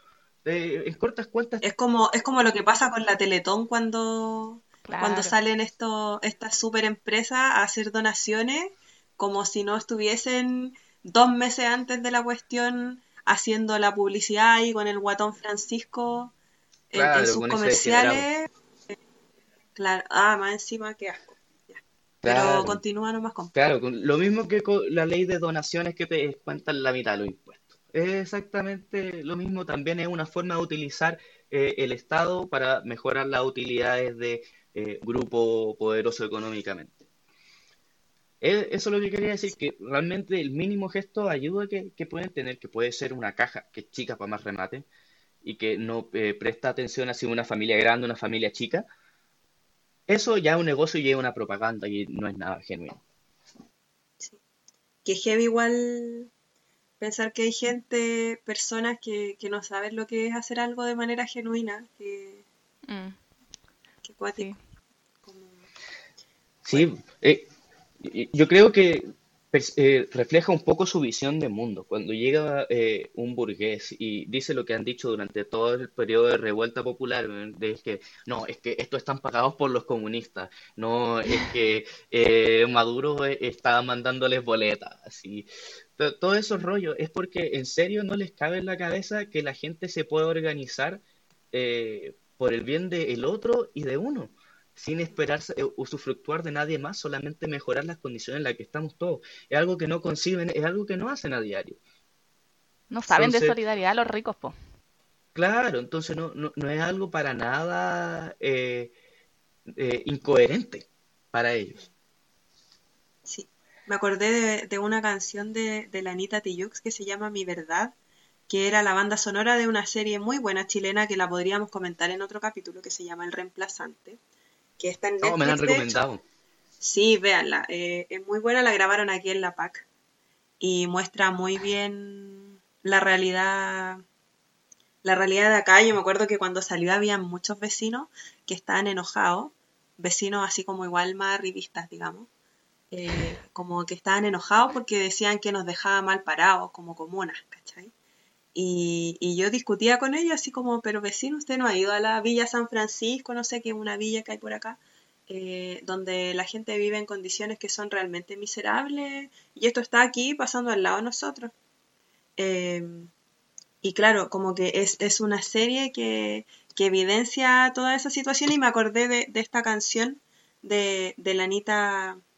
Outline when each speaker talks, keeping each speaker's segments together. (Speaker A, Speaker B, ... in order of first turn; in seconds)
Speaker A: 0.4-1.6, 16.9-18.3, 22.2-22.8, 23.5-37.0, 38.4-44.9, 45.4-48.9, 50.1-53.0, 66.6-67.5, 68.0-85.5, 86.0-101.8, 103.1-103.6, 105.3-108.9, 109.7-111.8, 125.2-126.2
Speaker B: 1.6-16.3, 16.9-18.5, 19.8-23.5, 55.0-56.3, 57.0-62.4, 64.0-64.5, 65.2-65.6, 113.2-117.9, 118.5-124.2, 124.8-125.9, 126.8-129.8, 130.6-134.0, 135.0-142.3, 142.9-147.9, 148.5-161.5, 162.4-163.1, 163.8-172.2
Speaker C: 4.9-5.3, 62.9-63.1, 102.9-104.5